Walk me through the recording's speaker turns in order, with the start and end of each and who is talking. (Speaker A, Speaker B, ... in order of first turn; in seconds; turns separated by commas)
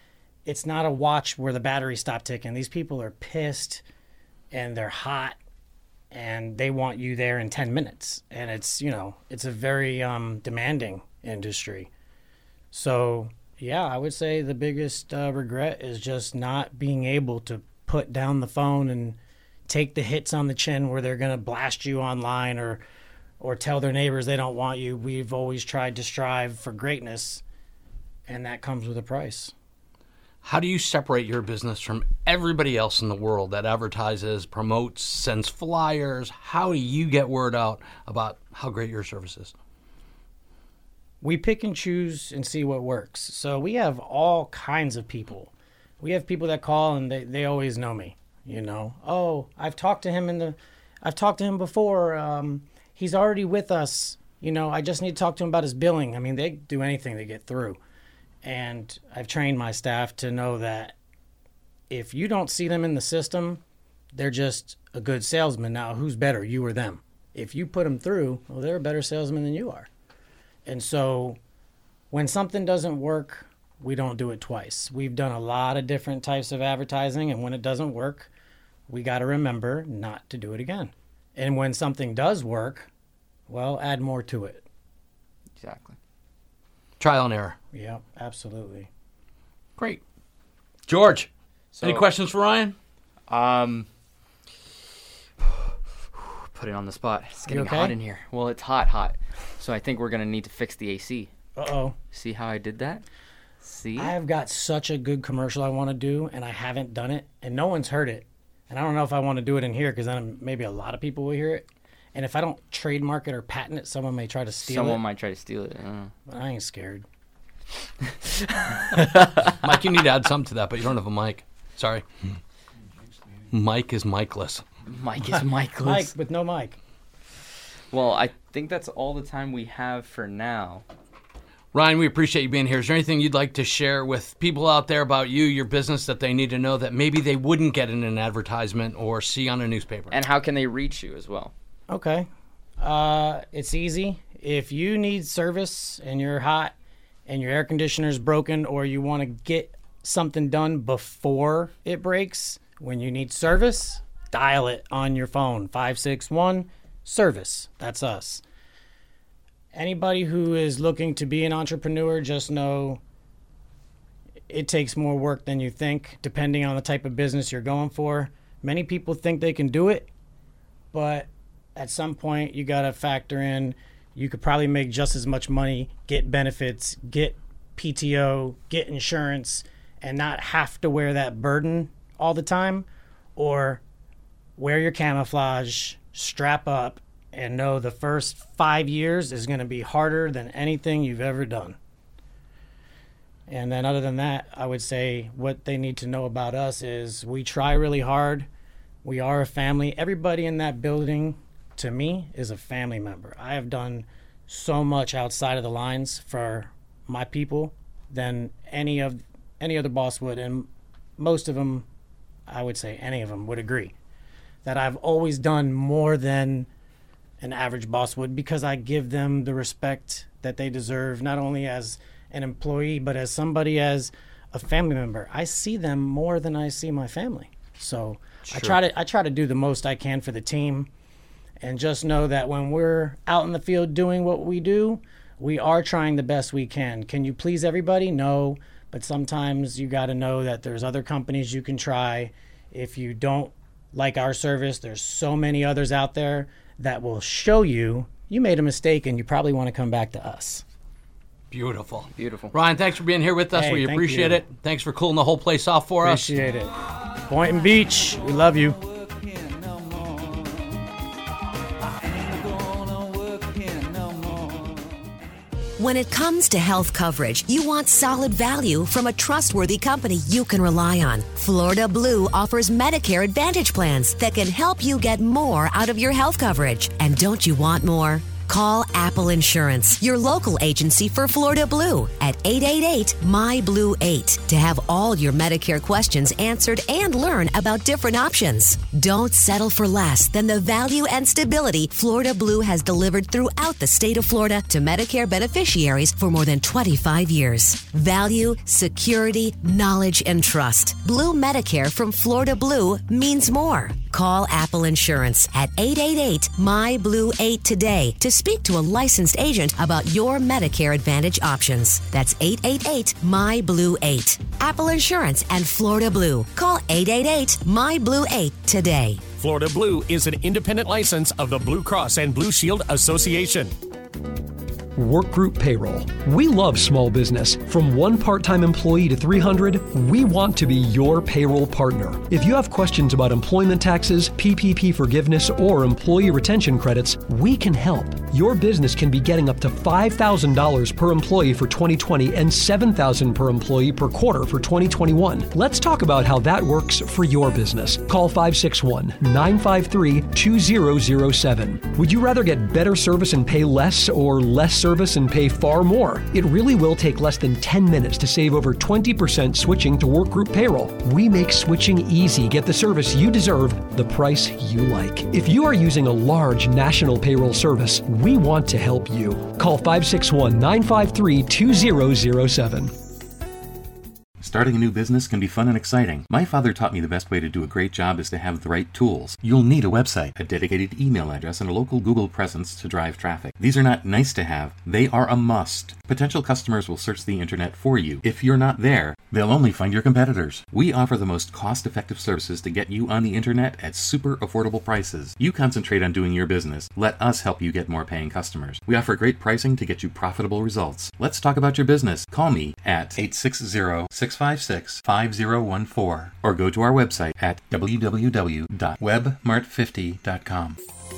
Speaker A: 0.5-3.8, Speaker A: 4.5-5.4, Speaker A: 6.1-11.9, Speaker A: 12.7-22.8, Speaker A: 23.4-27.4, Speaker A: 28.3-29.5, Speaker B: 30.4-39.5, Speaker A: 41.2-57.8, Speaker A: 58.4-60.9, Speaker A: 61.9-63.6, Speaker A: 64.1-69.9, Speaker A: 70.7-71.4, Speaker A: 72.1-78.3, Speaker A: 78.9-82.9, Speaker A: 83.5-84.6, Speaker C: 85.6-86.0, Speaker B: 87.0-87.6, Speaker A: 87.7-88.9, Speaker B: 89.8-90.0, Speaker B: 90.9-91.3, Speaker C: 91.7-92.1, Speaker B: 91.8-92.7, Speaker C: 93.3-93.9, Speaker C: 96.1-101.3, Speaker A: 97.5-97.9, Speaker A: 101.5-102.0, Speaker C: 102.1-103.0, Speaker C: 103.6-104.1, Speaker A: 104.0-115.0, Speaker C: 114.6-116.1, Speaker A: 116.3-117.0, Speaker C: 118.7-119.3, Speaker B: 119.6-122.4, Speaker B: 123.5-124.6, Speaker C: 124.8-126.1, Speaker A: 125.3-126.8, Speaker C: 127.9-130.8, Speaker B: 131.7-140.2, Speaker C: 140.1-141.5, Speaker A: 141.9-142.3, Speaker A: 142.8-146.7, Speaker A: 147.3-158.4, Speaker A: 159.7-163.0, Speaker A: 164.5-170.1, Speaker A: 170.9-183.8, Speaker A: 184.6-191.8, Speaker A: 193.5-198.5, Speaker A: 199.0-211.9, Speaker A: 212.5-213.9, Speaker A: 214.6-216.7, Speaker A: 217.4-230.9, Speaker C: 228.4-228.8, Speaker A: 231.6-250.6, Speaker B: 251.5-256.3, Speaker C: 252.1-252.5, Speaker A: 253.5-254.4, Speaker A: 256.0-258.8, Speaker D: 265.8-319.2, Speaker E: 319.4-323.7, Speaker F: 324.9-372.9, Speaker G: 374.4-410.8